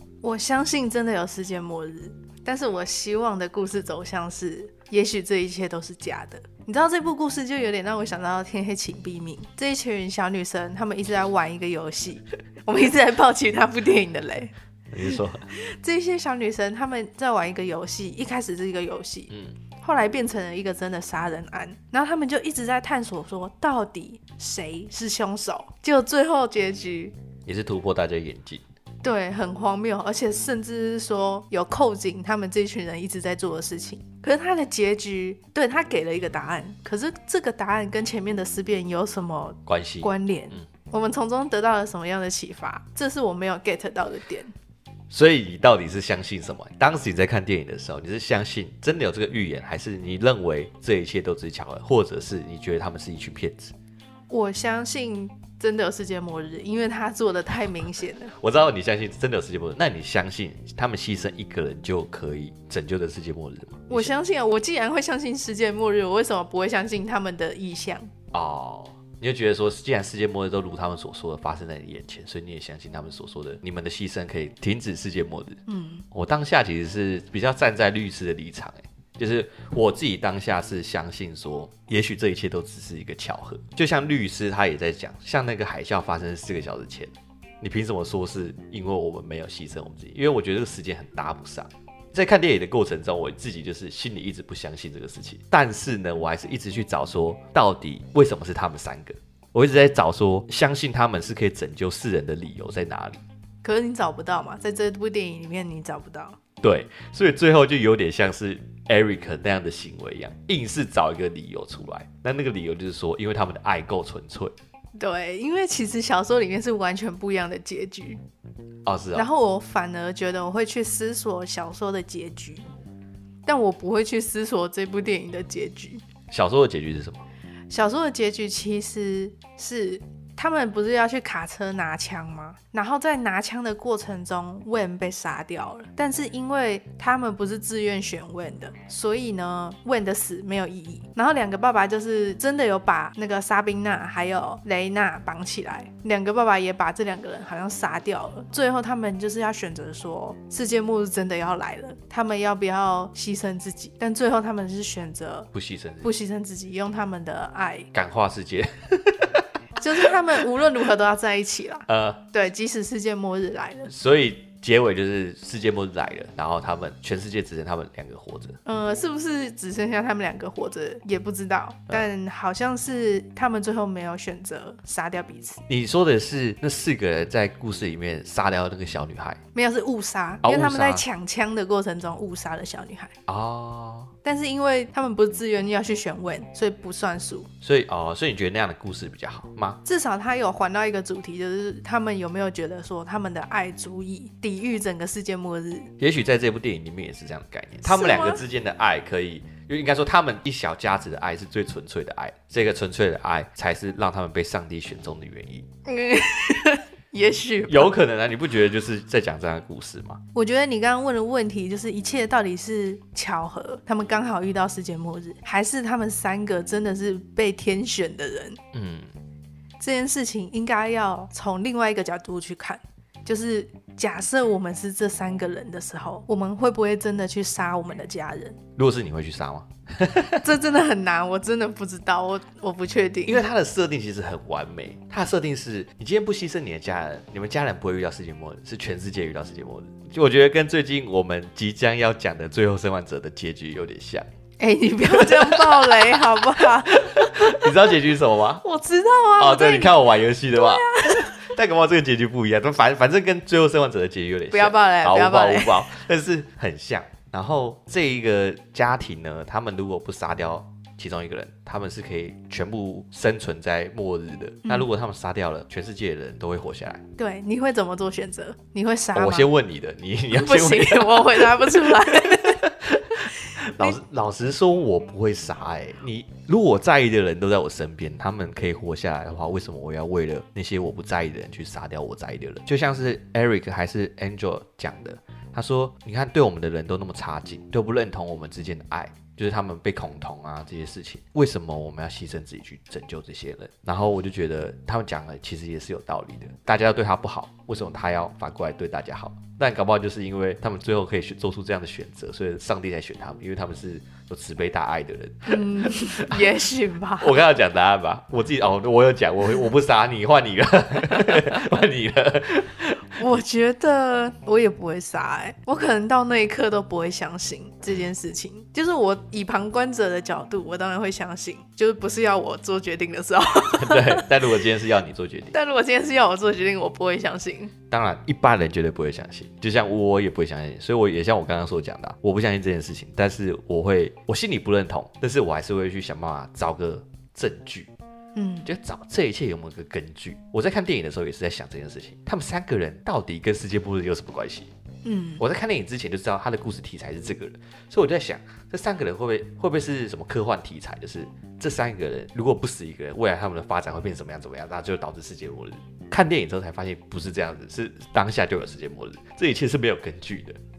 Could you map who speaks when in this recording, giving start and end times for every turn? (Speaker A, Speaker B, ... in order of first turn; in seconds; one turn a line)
Speaker A: 0.2-14.5
Speaker B: 14.9-15.4
Speaker A: 15.1-19.3
Speaker A: 19.8-27.1
Speaker B: 27.4-28.6
Speaker A: 29.0-44.5
Speaker B: 39.7-40.6
Speaker B: 45.1-53.7
Speaker A: 54.3-58.3
Speaker B: 58.3-64.1
Speaker A: 63.9-68.1
Speaker B: 68.3-75.6
Speaker A: 75.7-76.0
Speaker B: 76.1-103.2
Speaker A: 103.6-106.4
Speaker B: 106.6-114.5
Speaker A: 115.0-118.2
Speaker B: 118.8-119.3
Speaker A: 119.1-122.6
Speaker A: 123.5-126.0
Speaker B: 126.3-127.2
Speaker A: 127.7-155.5
Speaker B: 155.5-156.1
Speaker A: 156.0-157.9
Speaker B: 157.9-159.5
Speaker A: 159.8-163.9
Speaker B: 161.9-162.2
Speaker B: 163.9-168.6
Speaker A: 168.6-175.6
Speaker B: 175.7-179.4
Speaker A: 179.5-183.1
Speaker B: 180.4-181.0
Speaker B: 183.3-184.1
Speaker A: 184.2-187.5
Speaker B: 187.6-189.8
Speaker A: 189.8-195.9
Speaker B: 196.0-205.7
Speaker A: 197.8-198.4
Speaker A: 205.8-208.0
Speaker B: 207.7-210.2
Speaker A: 210.3-218.6
Speaker B: 218.7-219.1
Speaker A: 219.8-228.6
Speaker B: 228.8-230.5
Speaker A: 230.4-233.4
Speaker B: 233.2-244.2
Speaker A: 244.6-247.9
Speaker B: 245.1-248.6
Speaker A: 248.6-251.4
Speaker B: 249.4-267.0
Speaker A: 254.5-255.9
Speaker A: 267.2-269.5
Speaker B: 269.1-306.5
Speaker A: 270.3-272.6
Speaker A: 273.4-274.0
Speaker A: 305.5-307.4
Speaker B: 307.2-313.2
Speaker A: 313.1-324.3
Speaker B: 323.7-325.5
Speaker A: 325.5-327.7
Speaker B: 327.9-337.9
Speaker A: 338.3-338.7
Speaker B: 338.6-344.7
Speaker A: 345.0-345.4
Speaker B: 345.4-360.6